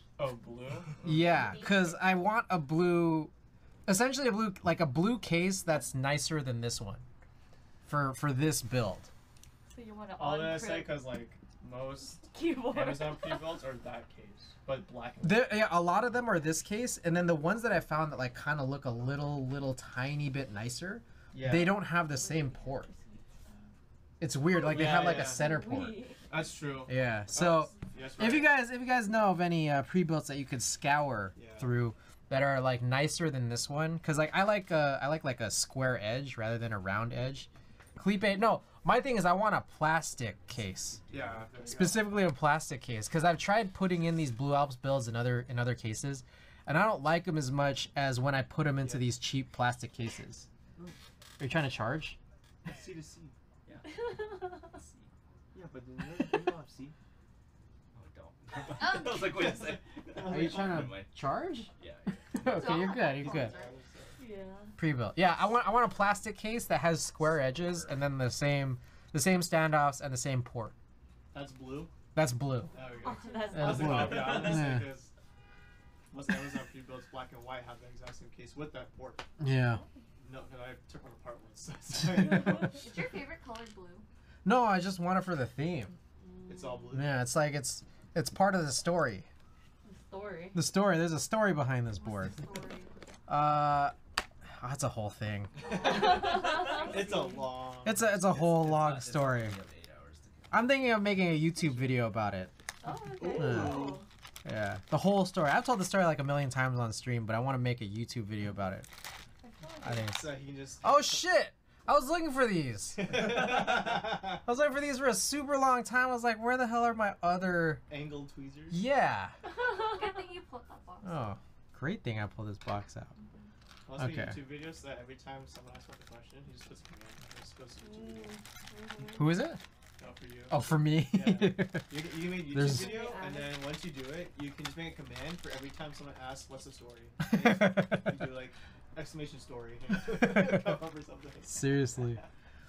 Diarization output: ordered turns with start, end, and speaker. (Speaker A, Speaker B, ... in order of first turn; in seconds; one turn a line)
Speaker A: 0.2-1.7
Speaker B: 1.0-3.3
Speaker C: 1.2-2.1
Speaker B: 3.9-7.0
Speaker B: 7.8-9.1
Speaker D: 9.7-11.1
Speaker A: 10.2-15.6
Speaker D: 12.2-13.6
Speaker B: 15.2-22.9
Speaker A: 21.3-21.8
Speaker C: 22.1-23.5
Speaker D: 22.1-23.2
Speaker B: 24.2-26.1
Speaker A: 24.6-25.5
Speaker D: 24.7-26.2
Speaker A: 26.3-28.5
Speaker B: 26.9-41.0
Speaker A: 31.3-31.8
Speaker E: 40.7-41.5
Speaker A: 41.1-42.2
Speaker B: 41.6-50.5
Speaker A: 48.8-49.1
Speaker B: 51.4-52.2
Speaker A: 52.6-53.3
Speaker E: 53.6-54.1
Speaker D: 53.8-54.7
Speaker E: 54.6-55.1
Speaker A: 55.5-57.0
Speaker E: 57.9-61.2
Speaker A: 58.8-61.0
Speaker B: 60.2-61.7
Speaker E: 61.8-62.8
Speaker B: 62.3-63.5
Speaker C: 62.5-63.8
Speaker A: 63.1-64.2
Speaker D: 64.2-64.7
Speaker B: 64.8-70.8
Speaker E: 67.2-68.1
Speaker A: 71.3-71.9
Speaker B: 72.1-72.7
Speaker A: 72.7-75.1
Speaker D: 72.9-74.3
Speaker B: 73.5-74.9
Speaker E: 73.8-74.8
Speaker A: 76.1-79.2
Speaker B: 79.4-79.8
Speaker D: 79.7-80.0
Speaker A: 80.2-82.9
Speaker B: 82.0-82.7
Speaker C: 82.8-84.0
Speaker B: 84.4-85.9
Speaker C: 86.2-86.8
Speaker A: 86.5-87.2
Speaker B: 86.9-89.3
Speaker D: 89.8-90.6
Speaker B: 90.5-92.4
Speaker C: 92.0-92.9
Speaker B: 93.3-95.6
Speaker C: 95.6-97.5
Speaker A: 95.6-98.1
Speaker D: 95.8-97.4
Speaker B: 97.8-99.6
Speaker E: 97.9-102.1
Speaker B: 100.5-102.5
Speaker D: 102.8-104.0
Speaker C: 102.8-104.0
Speaker A: 103.2-104.0
Speaker B: 103.3-103.9
Speaker B: 104.4-108.9
Speaker D: 109.4-110.1
Speaker B: 109.8-117.8
Speaker A: 109.9-111.2
Speaker A: 113.0-114.3
Speaker A: 117.9-118.8
Speaker B: 118.7-119.3
Speaker D: 119.6-120.0
Speaker C: 119.6-121.3
Speaker B: 121.0-123.1
Speaker A: 123.8-128.4
Speaker B: 124.0-124.4
Speaker D: 127.8-129.2
Speaker B: 129.0-129.6
Speaker A: 130.0-142.3
Speaker B: 130.5-133.0
Speaker D: 132.6-133.6
Speaker B: 137.3-138.3
Speaker B: 140.1-140.8
Speaker B: 141.4-142.2